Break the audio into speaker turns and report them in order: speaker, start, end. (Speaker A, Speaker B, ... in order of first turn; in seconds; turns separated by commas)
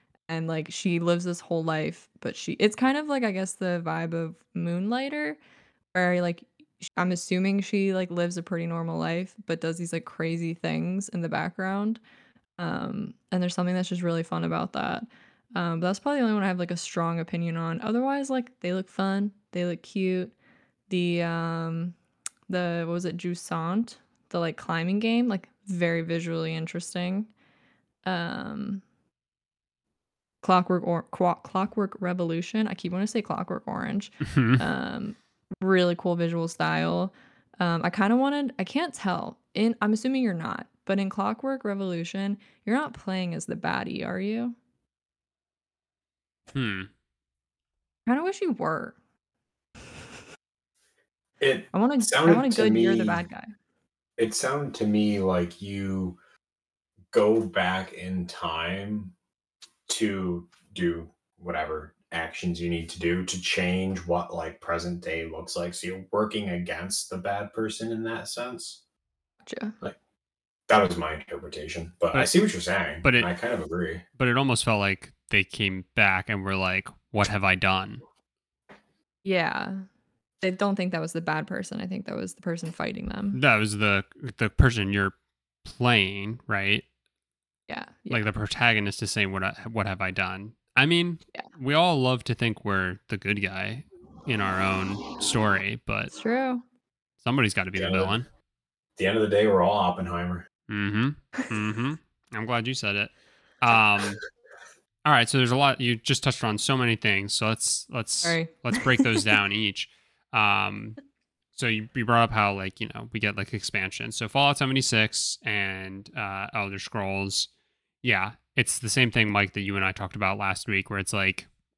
Speaker A: 0.3-5.4, Speaker A: 5.9-12.0, Speaker A: 12.6-20.3, Speaker A: 20.9-22.0, Speaker A: 22.5-27.3, Speaker A: 28.1-28.8, Speaker A: 30.4-44.6, Speaker B: 34.2-34.6, Speaker B: 46.5-46.9, Speaker A: 48.1-49.0, Speaker C: 51.4-53.2, Speaker A: 51.7-53.5, Speaker C: 54.2-56.2, Speaker C: 57.1-59.1, Speaker C: 59.9-68.8, Speaker A: 69.5-69.8, Speaker C: 70.7-74.0, Speaker B: 73.0-73.3, Speaker B: 74.2-78.0, Speaker A: 79.2-79.8, Speaker A: 80.4-83.4, Speaker B: 83.3-86.9, Speaker A: 87.7-88.2, Speaker B: 88.1-96.1, Speaker A: 96.1-96.6, Speaker B: 97.2-98.3, Speaker C: 97.8-98.1, Speaker C: 99.0-100.5, Speaker B: 100.7-104.2, Speaker B: 105.0-111.0, Speaker A: 108.2-109.1, Speaker B: 111.5-117.5, Speaker B: 118.0-121.5